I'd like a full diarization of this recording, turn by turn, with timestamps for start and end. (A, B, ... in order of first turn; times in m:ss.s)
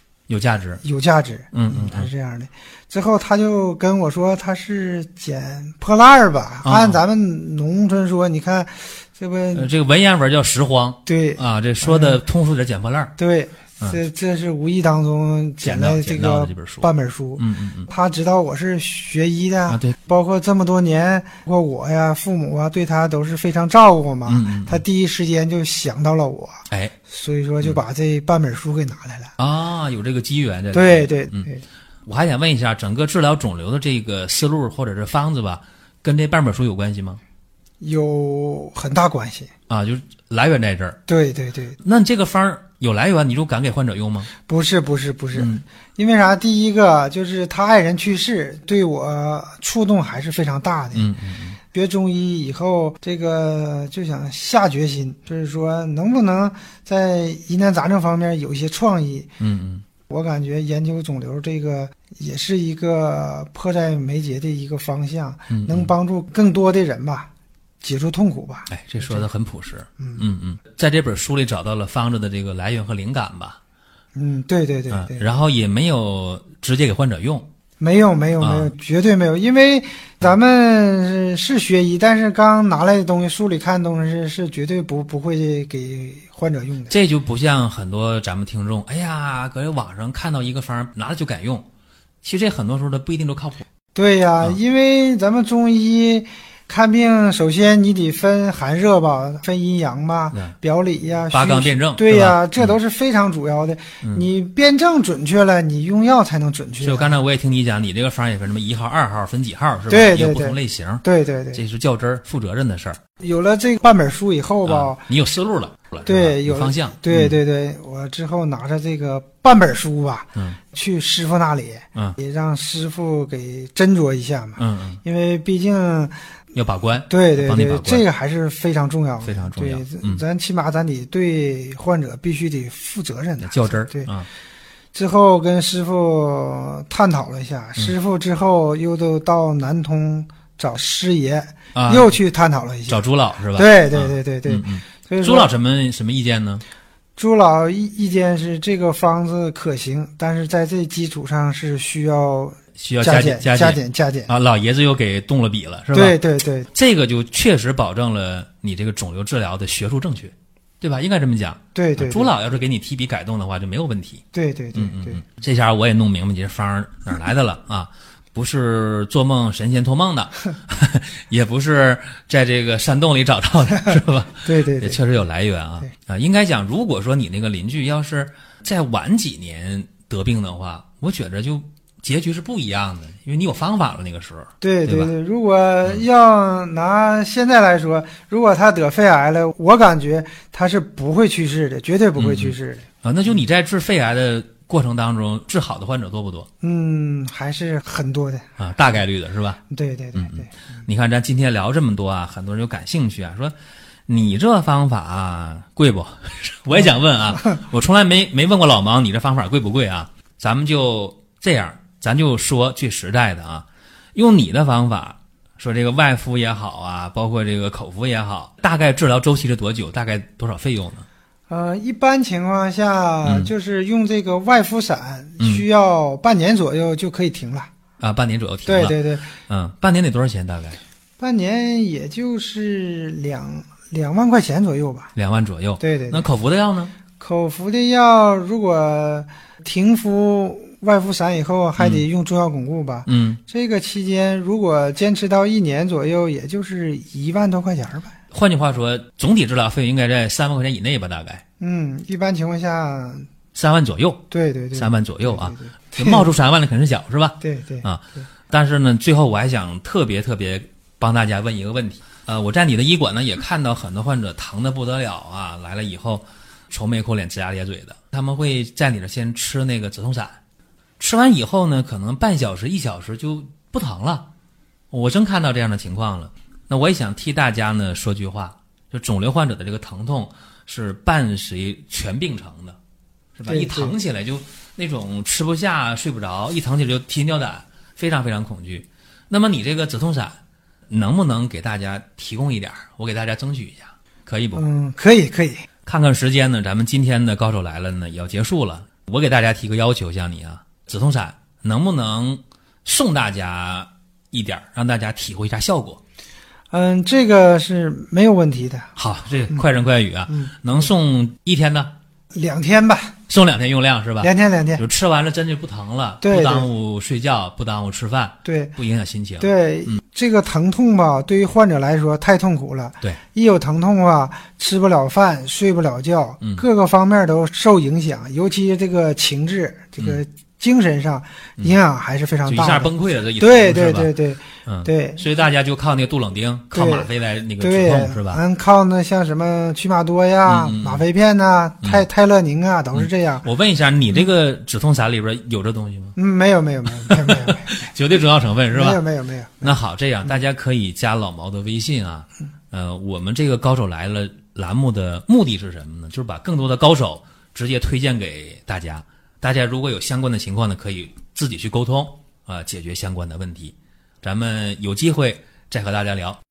0:00.3-0:00.8 A
0:00.8-0:09.7 B
0:01.5-0:02.1 A
0:06.6-0:07.0 A
0:09.5-0:13.1 A
0:11.1-0:12.2 B
0:13.2-0:29.3 B
0:15.6-0:17.9 A
0:19.7-0:20.0 A
0:24.3-0:24.8 A
0:29.4-0:31.5 A
0:30.7-0:31.6 B
0:32.1-0:37.2 A
0:37.8-0:39.5 B
0:39.7-0:41.0 A
0:41.1-0:41.8 B
0:41.8-0:44.3 A
0:44.5-0:51.1 B
0:45.3-0:45.6 A
0:50.9-0:51.6 A
0:51.7-0:59.3 B
0:59.4-0:59.8 A
1:00.1-1:07.3 B
1:05.5-1:05.9 A
1:07.8-1:09.2 B
1:08.7-1:13.6 A
1:10.0-1:10.2 B
1:14.2-1:15.2 B
1:14.9-1:17.5 A
1:17.8-1:26.9 B
1:18.4-1:18.7 A
1:26.9-1:31.7 A
1:32.2-1:33.6 A
1:34.0-1:47.2 B
1:41.3-1:42.8 A
1:46.8-1:53.0 A
1:49.9-1:51.6 B
1:53.2-1:55.0 B
1:54.6-1:57.4 A
1:56.1-2:06.2 B
2:04.6-2:05.0 A
2:06.5-2:08.0 A
2:07.1-2:14.1 B
2:09.2-2:10.2 A
2:13.4-2:14.3 A
2:14.9-2:23.0 B
2:21.7-2:22.2 A
2:22.9-2:26.6 A
2:23.6-2:25.5 B
2:27.2-2:34.3 B
2:32.8-2:36.2 A
2:35.9-2:36.7 B
2:36.7-2:44.2 A
2:41.8-2:42.3 B
2:44.3-2:45.2 B
2:44.8-3:05.1 A
2:54.4-2:55.0 B
3:04.6-3:12.8 B
3:12.2-3:16.5 A
3:16.6-3:18.6 B
3:18.6-3:19.6 A
3:19.7-3:20.5 B
3:20.2-3:23.5 A
3:24.1-3:41.1 A
3:41.5-3:47.7 B
3:43.2-3:43.5 A
3:45.4-3:45.6 A
3:48.0-3:50.8 A
3:48.7-3:49.3 B
3:51.2-3:55.1 B
3:55.2-3:56.9 A
3:55.8-3:56.3 B
3:57.2-4:08.1 B
4:01.8-4:02.0 A
4:03.1-4:03.4 A
4:08.3-4:11.4 A
4:11.6-4:13.3 B
4:13.5-4:14.2 A
4:14.3-4:16.3 B
4:14.8-4:30.4 A
4:17.4-4:17.9 B
4:31.0-4:34.3 A
4:34.9-4:42.8 A
4:43.4-4:50.4 A
4:43.5-4:44.0 B
4:50.9-4:54.6 A
4:54.5-4:55.7 B
4:55.8-5:06.0 A
5:06.7-5:08.9 B
5:09.0-5:11.9 A
5:10.3-5:10.9 B
5:12.3-5:13.2 B
5:13.3-5:20.0 A
5:14.2-5:14.8 B
5:16.2-5:16.7 B
5:18.4-5:18.8 B
5:19.4-5:35.2 B
5:32.5-5:38.4 A
5:36.7-5:43.4 B
5:40.5-5:41.0 A
5:42.9-5:46.2 A
5:46.2-5:47.9 B
5:47.1-5:49.0 A
5:48.7-5:50.4 B
5:49.6-6:06.4 A